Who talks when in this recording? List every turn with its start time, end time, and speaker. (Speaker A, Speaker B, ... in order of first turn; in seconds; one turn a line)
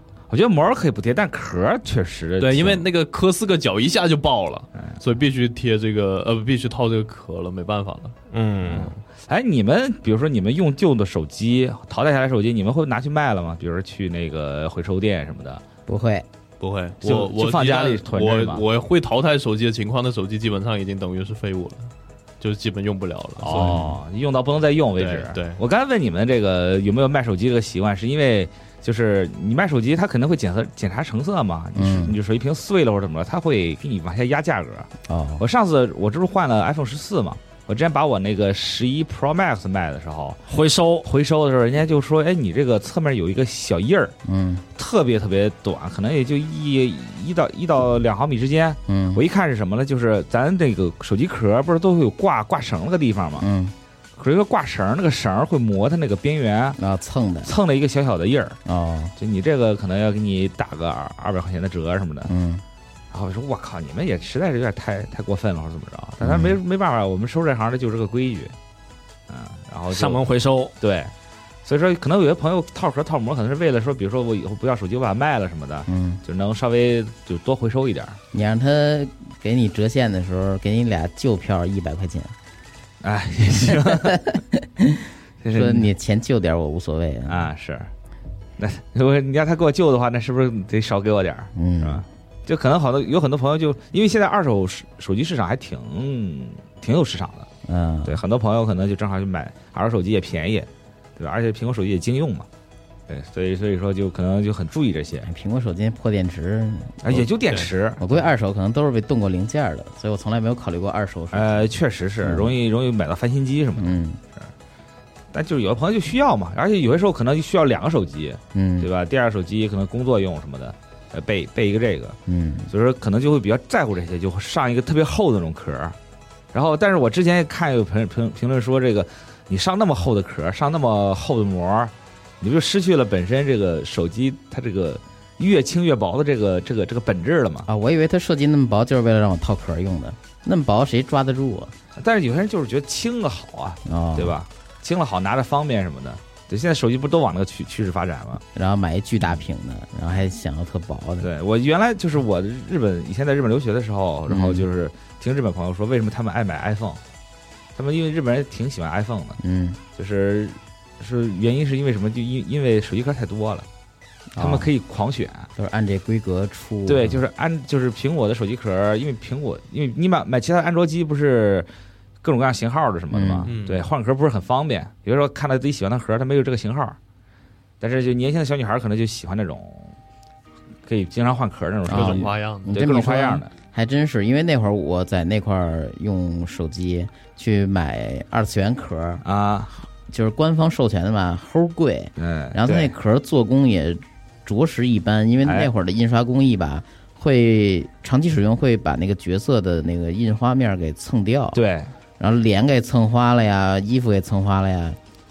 Speaker A: 0.3-2.8
Speaker B: 2.4-8.1
Speaker C: 8.3-8.9
Speaker B: 8.7-9.0
Speaker A: 9.3-15.6
Speaker D: 15.9-16.2
Speaker B: 16.6-24.0
Speaker A: 17.0-18.6
Speaker A: 23.4-40.4
Speaker B: 25.0-25.6
Speaker D: 31.7-32.2
Speaker D: 35.1-35.4
Speaker C: 40.5-41.0
Speaker A: 41.0-44.1
Speaker D: 44.2-44.6
Speaker A: 44.8-53.5
Speaker D: 48.9-49.2
Speaker D: 53.4-53.7
Speaker A: 54.2-56.8
Speaker D: 56.8-57.5
Speaker A: 57.4-58.6
Speaker D: 58.6-59.1
Speaker A: 59.2-62.3
Speaker D: 62.2-62.6
Speaker A: 63.1-68.5
Speaker D: 66.2-66.6
Speaker A: 69.3-70.2
Speaker C: 69.9-70.7
Speaker A: 70.8-71.1
Speaker A: 71.6-78.2
Speaker D: 75.8-76.2
Speaker D: 78.3-82.3
Speaker A: 83.0-84.2
Speaker D: 83.8-87.4
Speaker A: 85.4-85.9
Speaker A: 87.3-87.9
Speaker A: 88.6-97.5
Speaker D: 91.5-92.0
Speaker D: 97.7-98.2
Speaker A: 98.0-102.5
Speaker A: 103.1-105.3
Speaker D: 105.2-107.3
Speaker A: 107.0-108.0
Speaker D: 108.0-111.7
Speaker A: 111.3-114.5
Speaker D: 112.2-112.5
Speaker D: 113.8-114.2
Speaker A: 115.3-122.2
Speaker D: 118.5-118.9
Speaker D: 122.3-122.7
Speaker A: 122.7-126.0
Speaker A: 126.5-137.7
Speaker D: 137.7-141.7
Speaker A: 142.0-148.4
Speaker D: 143.8-144.4
Speaker D: 148.5-151.3
Speaker A: 151.2-157.0
Speaker D: 154.3-154.7
Speaker A: 157.8-159.4
Speaker D: 159.4-159.8
Speaker A: 160.0-163.7
Speaker D: 164.3-164.7
Speaker A: 164.4-165.5
Speaker D: 165.6-167.2
Speaker A: 166.8-171.7
Speaker A: 172.2-177.0
Speaker D: 173.1-173.5
Speaker B: 173.4-173.8
Speaker A: 177.8-179.9
Speaker A: 180.9-183.5
Speaker D: 181.9-189.2
Speaker B: 181.9-182.8
Speaker A: 189.2-189.7
Speaker D: 190.1-201.6
Speaker A: 192.2-192.9
Speaker A: 195.4-195.7
Speaker A: 201.5-201.9
Speaker D: 202.2-205.0